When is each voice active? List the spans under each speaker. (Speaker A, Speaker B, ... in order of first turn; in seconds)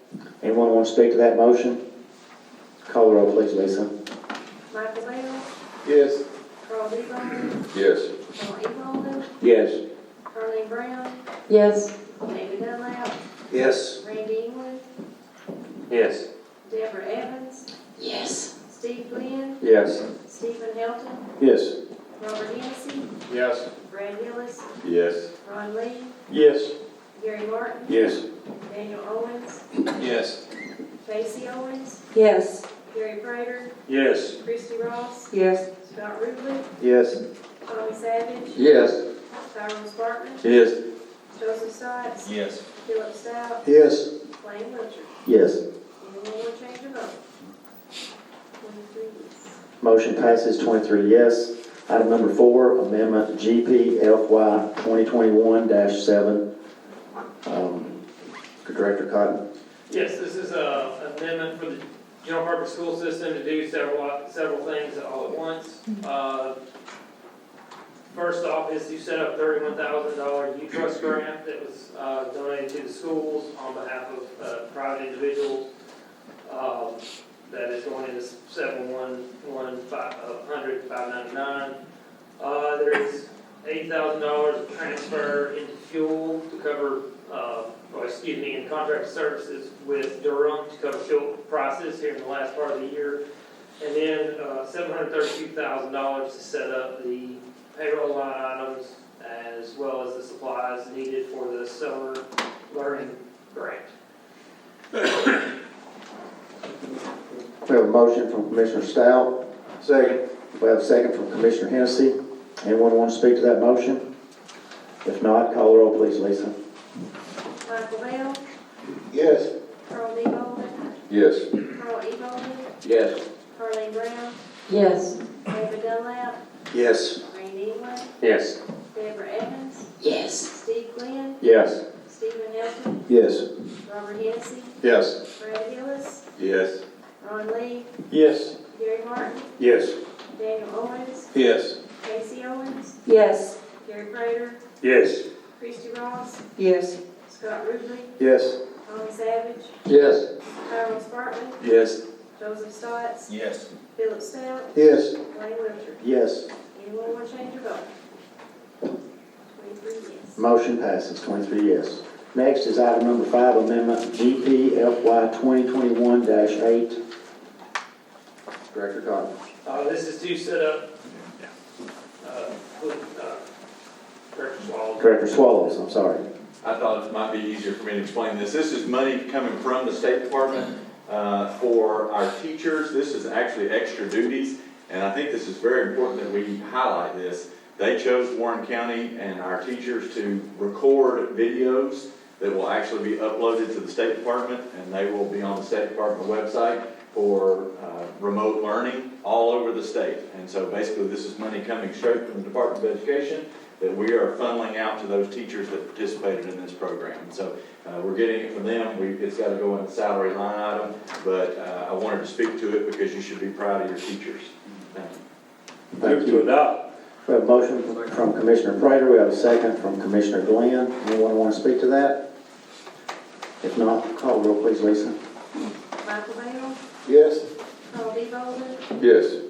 Speaker A: 0.4-1.8, 2.8-3.9, 45.2-45.6, 49.8-56.4, 57.4-58.0, 58.6-59.4, 107.7-114.0, 115.0-116.5, 156.0-156.5, 160.3-167.0, 168.7-169.3, 175.0-176.2, 216.0-216.4, 217.2-222.2, 223.6-225.2
Speaker B: 4.7-5.5, 6.6-7.7, 8.3-9.3, 10.3-11.2, 12.1-13.2, 13.9-14.8, 16.6-17.7, 18.6-19.6, 20.2-21.2, 22.2-23.1, 23.8-24.7, 25.4-26.1, 27.1-28.0, 28.6-29.6, 31.0-32.0, 32.7-33.7, 34.4-36.7, 37.6-38.7, 39.5-40.5, 41.3-43.7, 44.2-45.1, 46.0-47.2, 48.6-49.6, 117.6-118.4, 119.9-121.0, 121.5-122.7, 123.5-124.4, 125.5-126.4, 127.2-128.1, 128.9-129.9, 130.4-133.0, 133.8-134.7, 135.3-136.3, 137.2-137.9, 138.6-139.5, 140.3-141.3, 141.9-142.9, 143.7-144.6, 145.6-146.4, 147.2-148.1, 148.8-149.8, 150.6-151.6, 152.4-153.4, 153.9-156.0, 156.7-157.9, 159.5-160.4, 226.0-226.8, 227.9-228.8
Speaker C: 5.8-6.2, 7.7-8.1, 9.4-9.8, 13.5-14.0, 15.9-16.2, 19.6-20.0, 21.4-21.8, 23.3-23.7, 26.3-26.8, 27.9-28.2, 29.9-30.4, 33.9-34.3, 36.8-37.2, 38.5-39.0, 40.4-40.8, 43.6-44.1, 119.1-119.5, 121.1-121.5, 122.8-123.2, 126.7-127.2, 128.2-128.6, 131.4-131.8, 133.1-133.4, 134.8-135.2, 136.4-136.8, 138.1-138.5, 139.6-140.0, 141.3-141.8, 144.8-145.2, 148.2-148.6, 149.9-150.3, 151.6-152.0, 154.7-155.1, 227.0-227.4, 229.0-229.4
Speaker D: 11.5-11.9, 18.0-18.5, 32.1-32.6, 35.3-35.6, 124.7-125.2, 130.0-130.4, 143.1-143.6, 146.6-147.0
Speaker E: 24.8-25.3, 176.6-215.2
Speaker F: 59.9-66.5, 68.1-75.7, 76.4-81.8, 82.4-93.2, 93.8-103.9, 169.6-170.8, 172.2-173.4, 174.3-175.1, 216.0-216.8